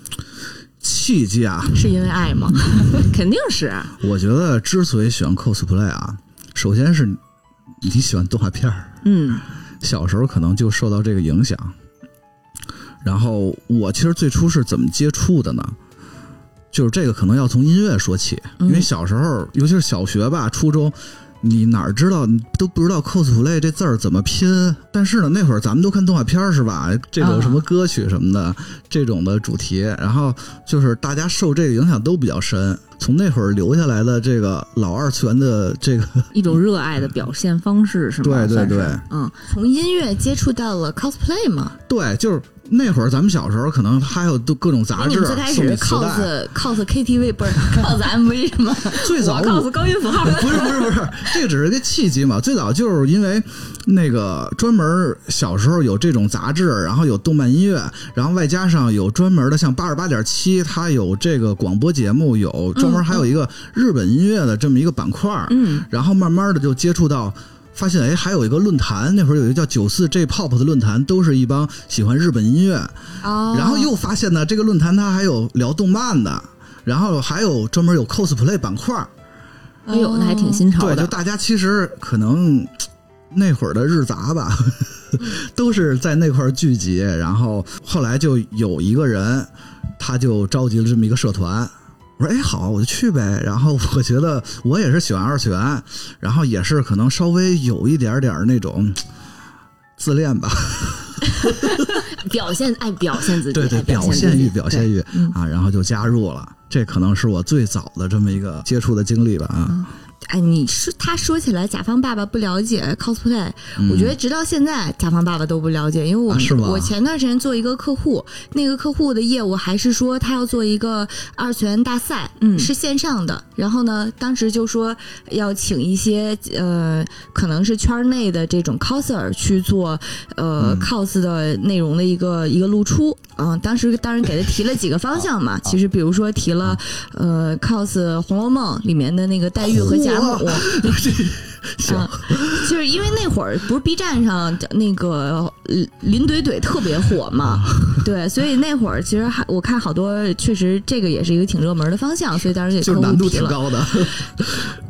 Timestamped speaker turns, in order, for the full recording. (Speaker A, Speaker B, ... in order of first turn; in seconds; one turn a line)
Speaker A: 0.8-1.9
Speaker B: 1.7-3.1
Speaker C: 3.0-4.0
Speaker A: 4.0-7.2
Speaker A: 7.8-9.0
Speaker C: 9.0-9.4
Speaker A: 9.8-11.8
Speaker A: 13.0-15.8
Speaker A: 16.7-36.5
Speaker B: 18.6-18.9
Speaker C: 27.2-27.6
Speaker C: 36.3-39.4
Speaker A: 38.2-39.0
Speaker B: 39.5-41.8
Speaker A: 41.9-46.3
Speaker B: 45.0-49.1
Speaker C: 49.0-51.0
Speaker A: 49.0-79.1
Speaker C: 65.5-65.8
Speaker B: 73.2-73.9
Speaker B: 79.9-80.7
Speaker C: 79.9-81.1
Speaker A: 80.8-82.8
Speaker A: 83.3-99.0
Speaker A: 100.0-102.0
Speaker C: 102.1-104.9
Speaker A: 103.5-109.8
Speaker B: 104.1-104.4
Speaker B: 110.2-141.0
Speaker A: 113.8-114.2
Speaker A: 116.3-116.9
Speaker C: 122.4-122.7
Speaker A: 130.6-130.9
Speaker A: 139.6-142.7
Speaker B: 141.8-153.9
Speaker A: 147.5-148.0
Speaker A: 152.8-154.8